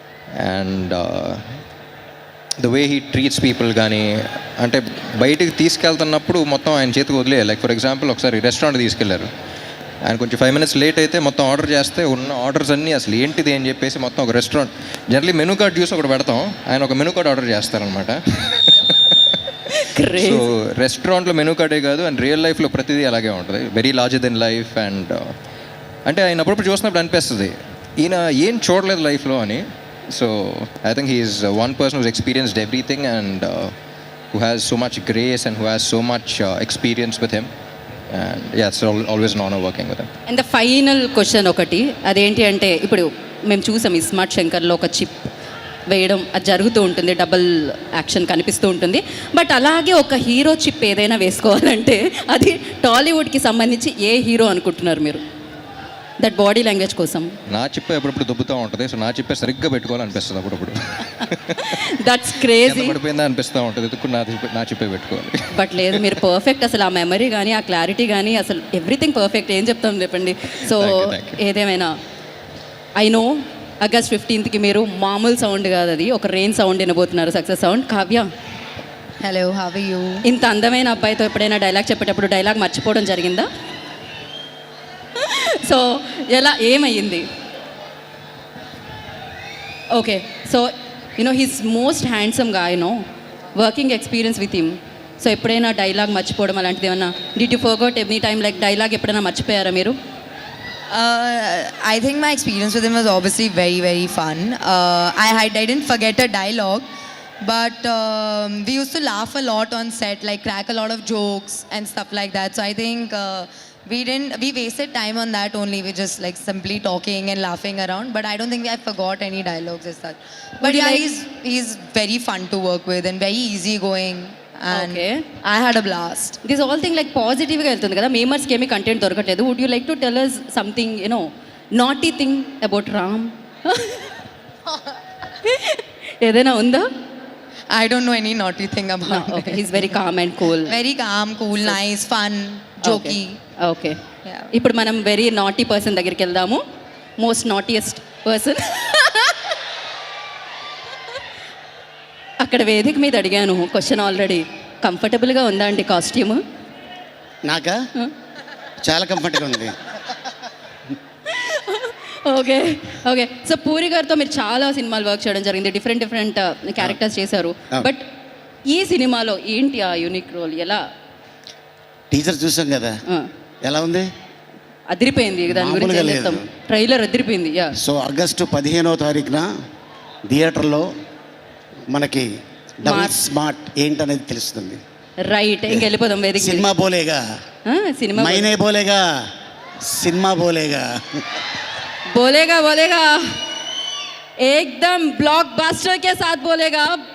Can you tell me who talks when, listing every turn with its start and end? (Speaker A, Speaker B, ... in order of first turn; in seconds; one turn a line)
Speaker A: 0.3-1.5
Speaker A: 2.6-9.3
Speaker A: 10.0-19.3
Speaker B: 19.7-20.5
Speaker A: 20.1-25.3
Speaker A: 26.1-33.7
Speaker A: 34.3-37.5
Speaker A: 38.1-40.1
Speaker B: 40.3-45.3
Speaker B: 45.9-55.2
Speaker B: 56.2-57.3
Speaker A: 57.5-61.8
Speaker B: 61.5-63.0
Speaker A: 62.6-66.2
Speaker B: 65.5-71.9
Speaker A: 70.7-71.4
Speaker B: 73.0-78.3
Speaker C: 79.2-80.2
Speaker B: 80.2-83.5
Speaker B: 85.2-87.2
Speaker B: 89.9-93.0
Speaker B: 93.5-100.0
Speaker C: 100.9-106.8
Speaker C: 107.4-126.4
Speaker B: 120.6-121.0
Speaker B: 124.7-125.2
Speaker B: 126.4-134.1
Speaker B: 135.4-136.9
Speaker C: 137.7-140.0
Speaker B: 139.1-140.7
Speaker C: 140.6-143.4
Speaker B: 142.8-144.0
Speaker B: 144.5-146.6
Speaker B: 147.2-149.5
Speaker B: 152.4-156.4
Speaker D: 157.4-157.8
Speaker D: 158.8-159.7
Speaker B: 161.3-168.1
Speaker B: 168.7-170.8
Speaker D: 172.1-173.0
Speaker D: 173.6-174.1
Speaker B: 174.9-177.8
Speaker D: 175.5-176.4
Speaker D: 177.8-179.5
Speaker D: 180.3-180.9
Speaker D: 181.9-182.3
Speaker D: 182.8-184.8
Speaker B: 182.8-183.2
Speaker B: 185.2-186.7
Speaker D: 185.7-187.2
Speaker B: 187.7-188.5
Speaker D: 188.2-189.0
Speaker D: 189.8-191.2
Speaker B: 192.1-193.3
Speaker B: 194.4-197.0